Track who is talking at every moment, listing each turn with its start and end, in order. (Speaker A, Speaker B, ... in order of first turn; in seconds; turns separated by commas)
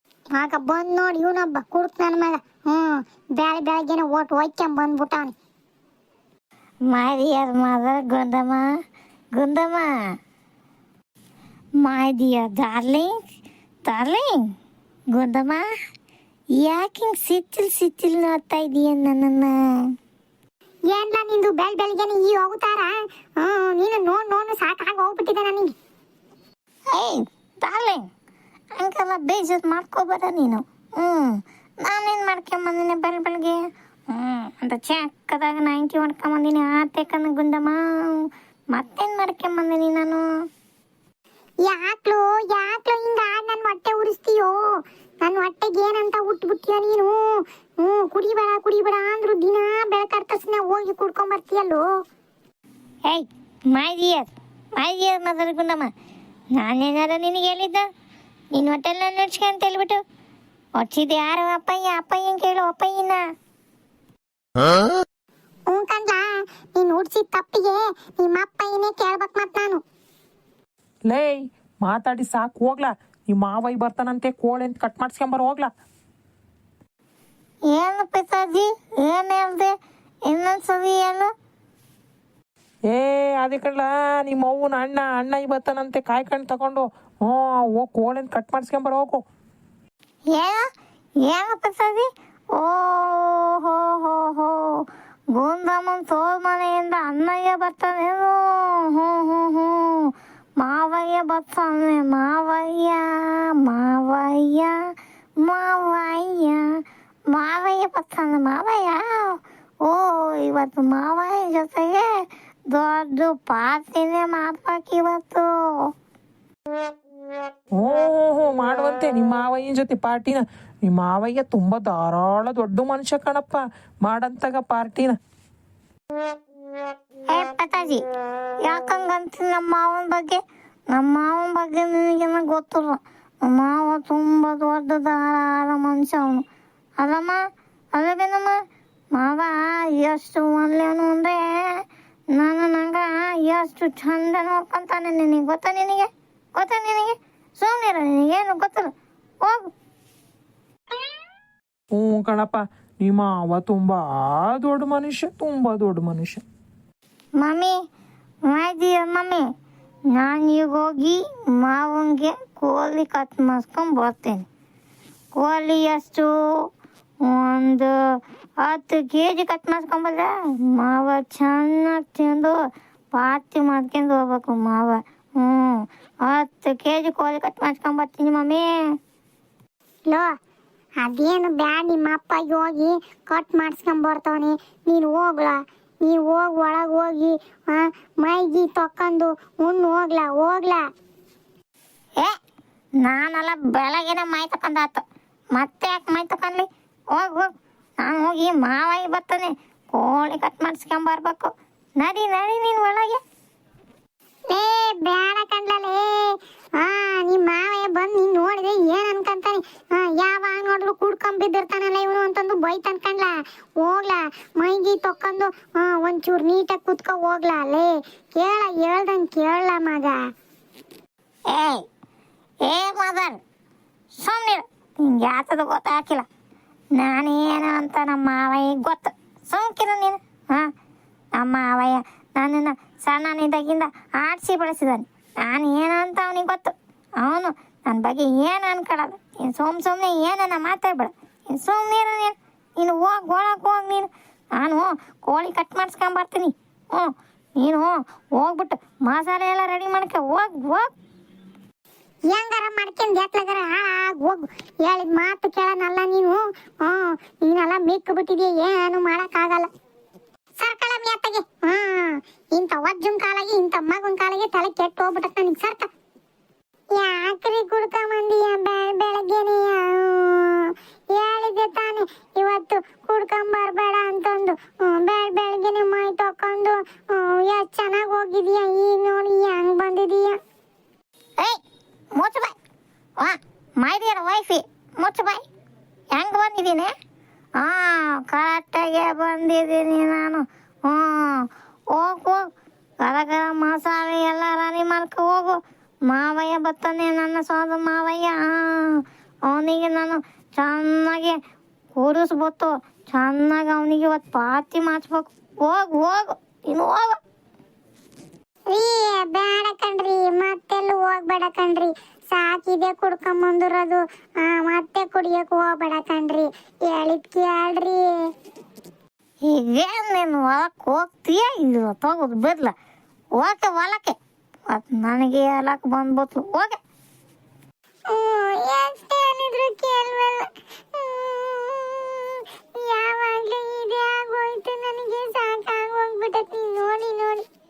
Speaker A: 0.3-5.3, Speaker B: 6.9-8.6, Speaker B: 9.3-9.8, Speaker B: 11.8-13.1, Speaker B: 13.8-14.4, Speaker B: 15.1-15.6, Speaker B: 16.6-19.5, Speaker A: 20.9-25.7, Speaker B: 26.9-28.0, Speaker B: 28.8-33.6, Speaker B: 34.1-40.2, Speaker A: 41.6-44.6, Speaker A: 45.2-51.8, Speaker B: 53.1-55.9, Speaker B: 56.6-57.8, Speaker B: 58.5-60.0, Speaker B: 60.8-63.2, Speaker A: 65.7-69.8, Speaker C: 71.1-75.7, Speaker B: 77.7-79.7, Speaker B: 80.2-81.3, Speaker C: 82.9-89.2, Speaker B: 90.3-90.6, Speaker B: 91.2-104.8, Speaker B: 105.4-106.8, Speaker B: 107.3-115.9, Speaker C: 117.8-125.1, Speaker B: 127.3-128.0, Speaker B: 128.6-130.4, Speaker B: 130.9-136.4, Speaker B: 137.0-137.4, Speaker B: 137.9-138.6, Speaker B: 139.1-141.8, Speaker B: 142.3-148.9, Speaker C: 151.9-156.4, Speaker B: 157.4-157.7, Speaker B: 158.5-159.4, Speaker B: 160.2-164.4, Speaker B: 165.3-166.7, Speaker B: 167.2-167.9, Speaker B: 168.6-172.5, Speaker B: 173.1-178.6, Speaker A: 181.0-190.8, Speaker B: 193.0-203.2, Speaker A: 204.5-220.2, Speaker B: 221.5-221.8, Speaker B: 222.7-223.4, Speaker B: 224.2-226.3, Speaker B: 227.0-230.7, Speaker B: 231.4-250.9, Speaker A: 252.3-259.7, Speaker A: 260.6-265.9, Speaker A: 266.9-280.4, Speaker B: 282.1-282.5, Speaker B: 283.2-285.4, Speaker B: 286.1-286.9, Speaker B: 287.6-292.4, Speaker B: 293.0-301.4, Speaker B: 301.9-307.1, Speaker A: 308.7-318.0, Speaker B: 319.4-322.7, Speaker B: 323.4-324.2, Speaker B: 324.7-326.8, Speaker A: 328.1-337.4